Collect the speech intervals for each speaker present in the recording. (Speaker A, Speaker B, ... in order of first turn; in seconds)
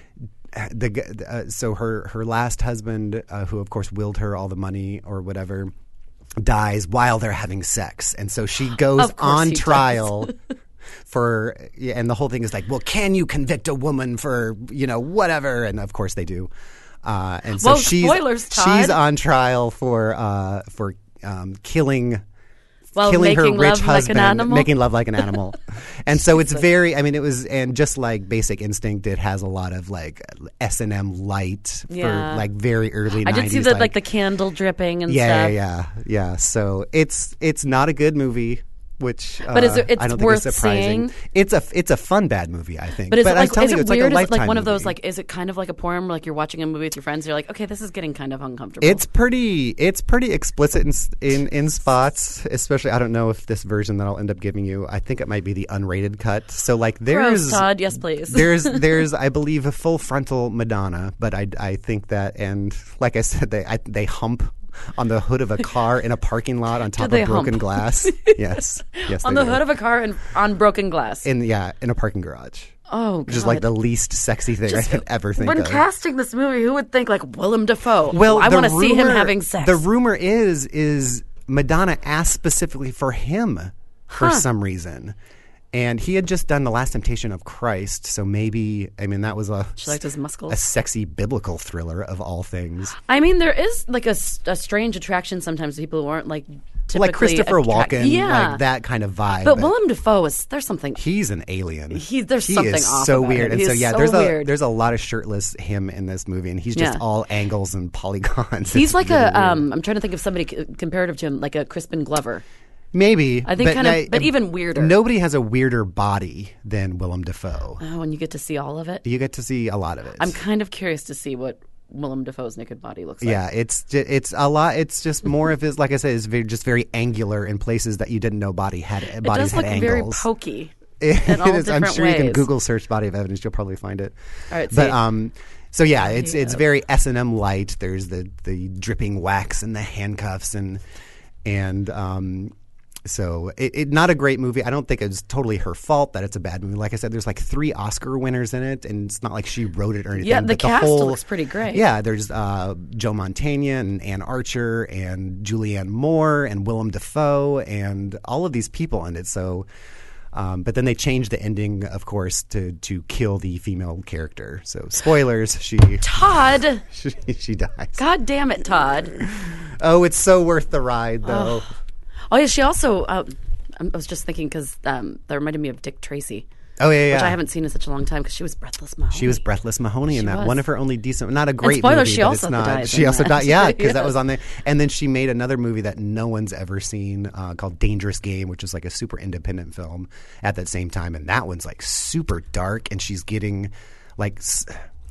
Speaker A: 0.5-5.7, 6.4-10.3, 11.1-16.5, 17.0-22.2, 22.9-34.0, 35.1-44.9, 48.8-69.6, 71.2-72.7, 73.3-75.8, 78.1-85.1, 85.7-93.0, 96.9-99.7, 101.0-109.7, 112.9-117.8, 119.0-120.3, 123.2-130.2, 131.0-134.1, 134.7-140.8, 141.4-142.5, 143.0-159.7, 160.3-166.1, 166.8-168.0, 169.2-171.7, 176.8-177.4, 179.1-194.8
Speaker B: 8.9-10.3, 17.5-19.0, 22.9-25.3, 31.9-32.5, 33.1-35.6, 39.5-41.1, 43.1-49.0, 57.1-59.0, 67.0-71.3, 72.9-73.7, 74.7-79.8, 84.1-84.4, 89.8-90.6, 93.1-98.6, 99.3-101.0, 101.9-104.5, 106.7-107.0, 108.7-112.4, 113.4-114.9, 117.8-119.0, 120.2-123.4, 129.2-132.4, 134.5-135.0, 136.0-136.6, 150.2-151.8, 166.0-166.8, 167.9-169.1, 171.2-171.6, 172.3-176.4, 177.1-179.4, 180.1-180.6, 181.6-184.1